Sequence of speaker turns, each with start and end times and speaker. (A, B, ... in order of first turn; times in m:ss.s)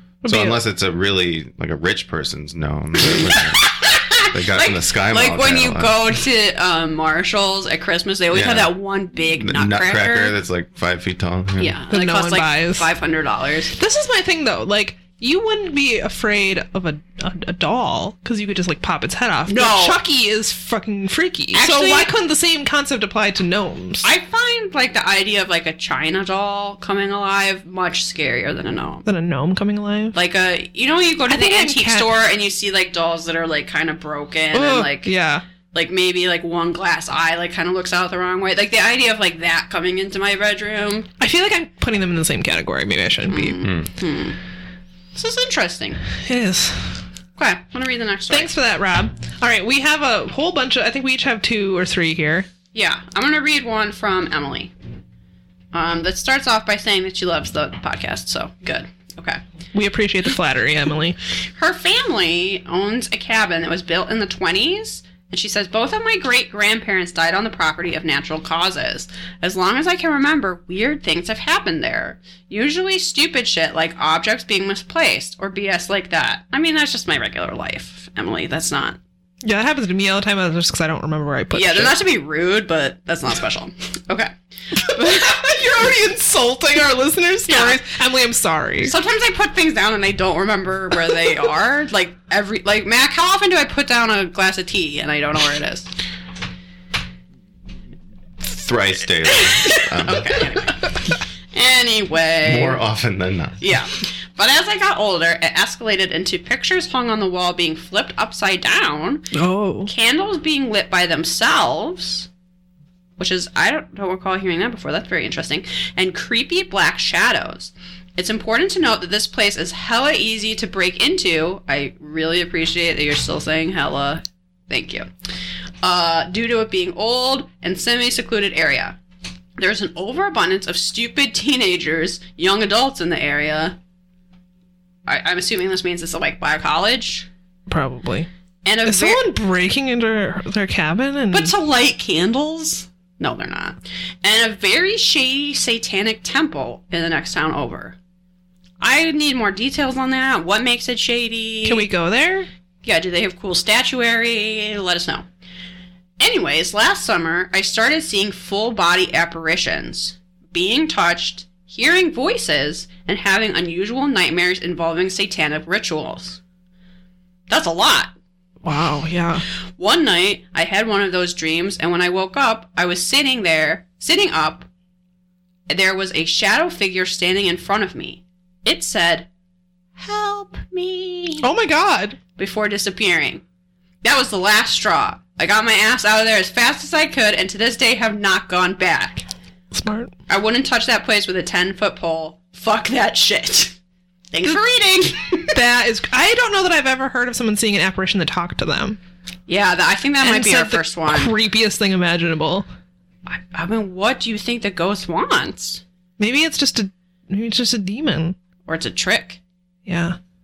0:00.2-0:00.6 A
0:00.2-0:03.7 B
0:03.1-0:10.3 C
0:04.3-0:06.0 B
0:08.3-0:08.7 B
0:09.4-0:11.8 B
0:11.6-0:13.8 C
0:11.9-0:12.9 A
0:13.8-0:24.0 A
0:19.5-0:20.0 C
0:21.5-0:22.1 C
0:24.0-0:29.0 C
0:29.0-0:30.1 A
0:30.1-0:35.1 C
0:31.3-0:32.1 A
0:34.5-0:35.4 A
0:35.7-0:41.1 C
0:41.2-0:43.6 A
0:43.3-0:44.4 C
0:43.6-0:43.9 B
0:45.1-0:46.0 C
0:46.2-0:46.9 A
0:47.4-0:48.5 C
0:48.3-0:52.5 A
0:52.7-0:54.7 C
0:55.7-0:59.4 C
0:59.7-1:01.2 A
1:01.6-1:19.0 C
1:19.4-1:21.9 A
1:21.5-1:25.2 C
1:24.8-1:28.9 A
1:27.5-1:27.8 C
1:28.8-1:35.9 C
1:38.4-1:40.5 B
1:40.0-1:40.8 C
1:41.5-1:42.8 C
1:42.4-1:43.6 B
1:43.6-1:49.3 C
1:49.3-1:49.9 A
1:49.9-1:52.3 C
1:53.2-2:05.1 C
2:05.8-2:09.0 C
2:09.6-2:13.8 C
2:15.1-2:17.3 C
2:17.7-2:18.3 A
2:18.6-2:19.2 C
2:18.9-2:21.5 A
2:21.3-2:28.0 C
2:28.8-2:31.9 C
2:31.6-2:32.5 A
2:32.8-2:35.3 C
2:36.2-2:46.4 C
2:47.5-2:48.1 C
2:48.6-2:49.4 A
2:49.8-2:54.7 C
2:55.7-2:59.3 C
3:00.0-3:01.5 C
3:01.4-3:02.2 A
3:02.4-3:03.4 C
3:04.0-3:09.2 C
3:09.7-3:10.1 A
3:10.3-3:13.8 C
3:14.3-3:15.6 C
3:15.5-3:19.0 A
3:19.5-3:21.3 C
3:20.2-3:22.6 A
3:23.3-3:25.8 C
3:26.2-3:28.4 A
3:28.6-3:29.4 C
3:29.9-3:30.2 A